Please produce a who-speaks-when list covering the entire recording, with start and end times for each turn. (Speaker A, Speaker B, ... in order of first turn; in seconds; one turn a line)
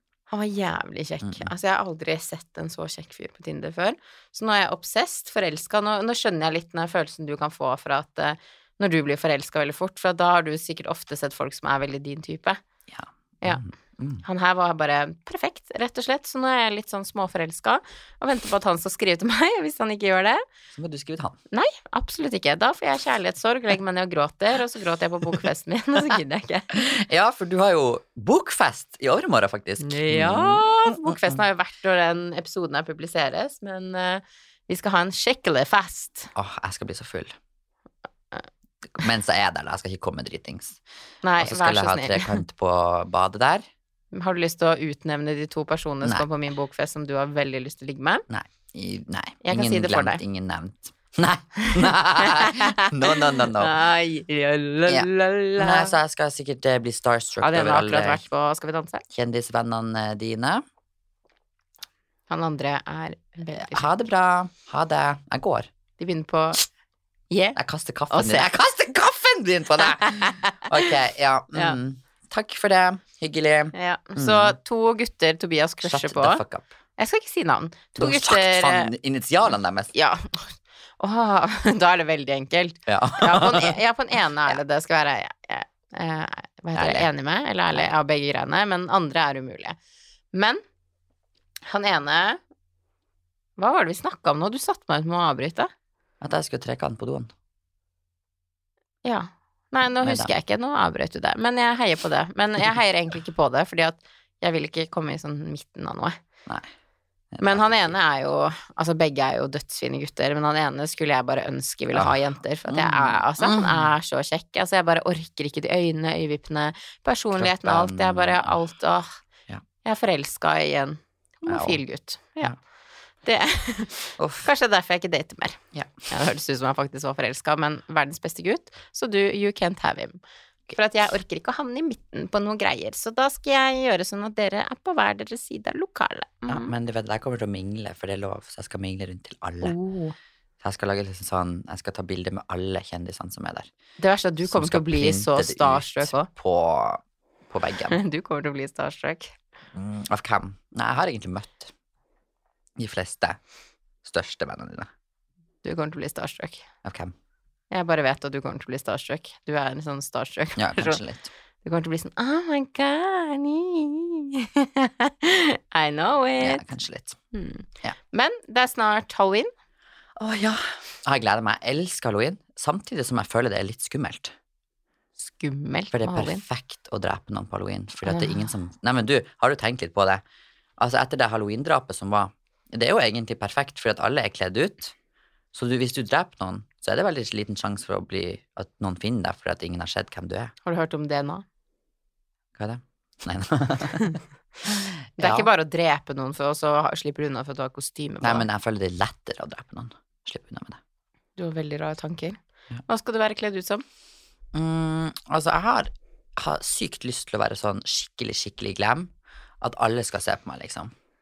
Speaker A: 0.3-12.6
Speaker B: 1.2-1.5
Speaker B: 12.9-14.2
Speaker A: 13.4-13.7
Speaker A: 14.2-20.4
Speaker B: 20.7-21.4
Speaker A: 21.5-26.7
Speaker B: 26.7-31.4
Speaker A: 29.8-36.3
Speaker B: 36.3-37.3
Speaker B: 38.9-40.8
Speaker A: 41.2-42.4
Speaker B: 41.4-43.6
Speaker A: 44.1-48.2
Speaker B: 48.3-53.7
Speaker A: 49.4-50.2
Speaker A: 51.6-55.9
Speaker B: 54.9-58.2
Speaker A: 57.4-59.0
Speaker B: 59.1-60.6
Speaker A: 62.3-63.9
Speaker B: 63.5-65.7
Speaker A: 66.0-66.7
Speaker A: 67.3-67.6
Speaker B: 67.5-74.5
Speaker A: 68.1-68.5
Speaker A: 70.0-70.7
Speaker A: 73.7-76.4
Speaker B: 75.8-76.7
Speaker A: 77.0-78.9
Speaker B: 78.0-79.9
Speaker A: 79.9-89.8
Speaker B: 82.9-83.7
Speaker B: 86.7-87.1
Speaker A: 90.3-90.6
Speaker A: 91.7-92.4
Speaker A: 93.6-95.7
Speaker B: 96.2-97.3
Speaker A: 99.0-106.2
Speaker B: 100.0-100.3
Speaker B: 107.3-108.0
Speaker A: 107.4-119.1
Speaker B: 111.9-113.9
Speaker B: 117.3-118.6
Speaker A: 119.8-122.5
Speaker B: 121.5-121.8
Speaker A: 123.2-130.2
Speaker B: 124.2-124.5
Speaker A: 130.7-136.7
Speaker B: 136.5-139.8
Speaker A: 139.6-140.1
Speaker B: 140.6-143.7
Speaker A: 144.0-146.3
Speaker B: 144.4-148.0
Speaker A: 147.9-149.3
Speaker B: 149.7-151.7
Speaker B: 152.8-153.4
Speaker B: 154.0-154.9
Speaker A: 155.6-156.7
Speaker B: 156.8-157.1
Speaker A: 157.7-161.0
Speaker B: 160.6-161.3
Speaker A: 161.6-166.7
Speaker B: 166.4-167.2
Speaker A: 167.3-169.5
Speaker B: 170.2-174.3
Speaker A: 175.2-176.4
Speaker B: 175.9-180.2
Speaker A: 178.1-178.5
Speaker B: 180.8-184.9
Speaker B: 185.5-190.5
Speaker A: 190.6-191.4
Speaker B: 192.6-195.5
Speaker A: 195.2-198.5
Speaker B: 198.2-200.8
Speaker A: 201.4-203.8
Speaker B: 204.5-210.9